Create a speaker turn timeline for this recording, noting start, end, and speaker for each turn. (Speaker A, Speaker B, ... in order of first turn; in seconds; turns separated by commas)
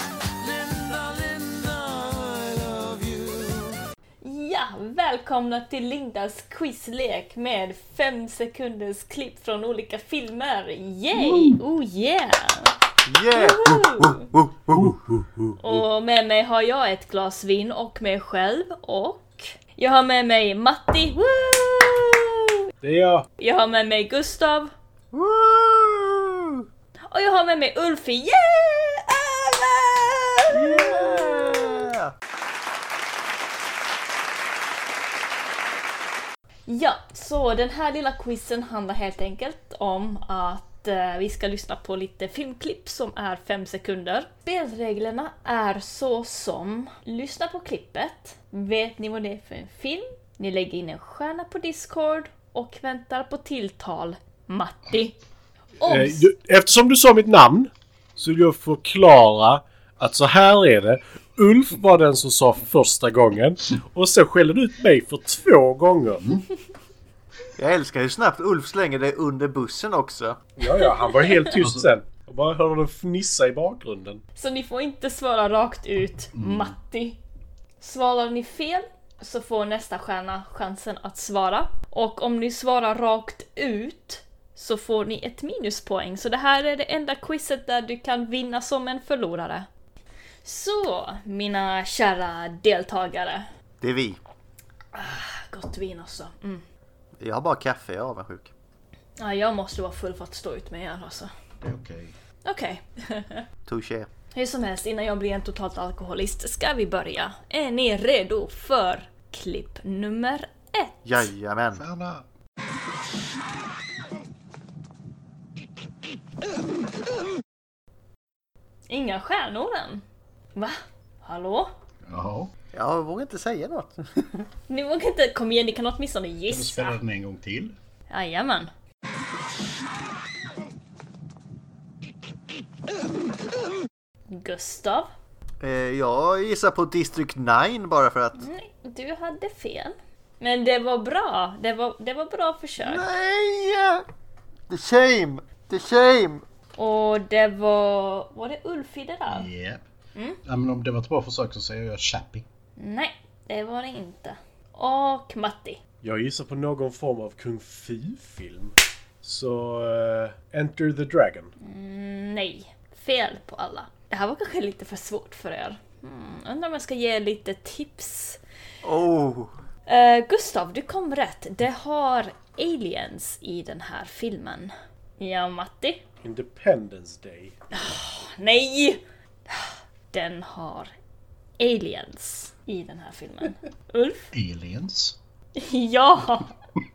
Speaker A: 0.4-3.8, Speaker B: 4.2-12.7, Speaker C: 13.0-14.9, Speaker B: 13.3-14.2, Speaker D: 14.8-15.5, Speaker B: 15.6-22.4, Speaker D: 22.8-23.2, Speaker B: 23.4-24.7, Speaker C: 25.1-26.6, Speaker B: 27.1-31.7, Speaker C: 30.5-32.1, Speaker B: 36.6-55.1, Speaker B: 55.8-56.3, Speaker D: 55.9-66.2, Speaker C: 67.6-70.4, Speaker D: 70.6-74.2, Speaker B: 70.7-71.5, Speaker E: 71.5-71.9, Speaker B: 74.3-77.2, Speaker E: 76.3-76.7, Speaker B: 77.8-89.7, Speaker B: 90.4-93.5, Speaker C: 93.8-94.2, Speaker B: 94.9-96.6, Speaker C: 97.2-98.5, Speaker B: 99.2-101.3, Speaker E: 101.6-102.1, Speaker B: 102.4-103.4, Speaker C: 103.7-104.1, Speaker B: 104.3-111.3, Speaker C: 111.0-111.8, Speaker E: 111.7-112.2, Speaker B: 118.9-120.0, Speaker B: 120.5-121.7, Speaker E: 122.1-122.5, Speaker C: 122.7-124.5, Speaker B: 124.7-127.0, Speaker E: 126.5-127.7, Speaker B: 128.1-128.7, Speaker B: 134.3-135.1, Speaker C: 135.6-138.4, Speaker B: 138.4-143.0, Speaker C: 142.8-144.0, Speaker C: 144.7-146.4, Speaker B: 146.8-149.5, Speaker E: 149.3-149.8, Speaker E: 150.4-152.4, Speaker B: 152.8-155.8, Speaker D: 156.0-161.5, Speaker B: 161.6-168.4, Speaker C: 168.8-169.5, Speaker B: 169.9-176.0, Speaker D: 176.2-177.5, Speaker B: 177.7-180.9, Speaker B: 181.6-184.3, Speaker E: 184.3-185.2, Speaker B: 185.6-186.5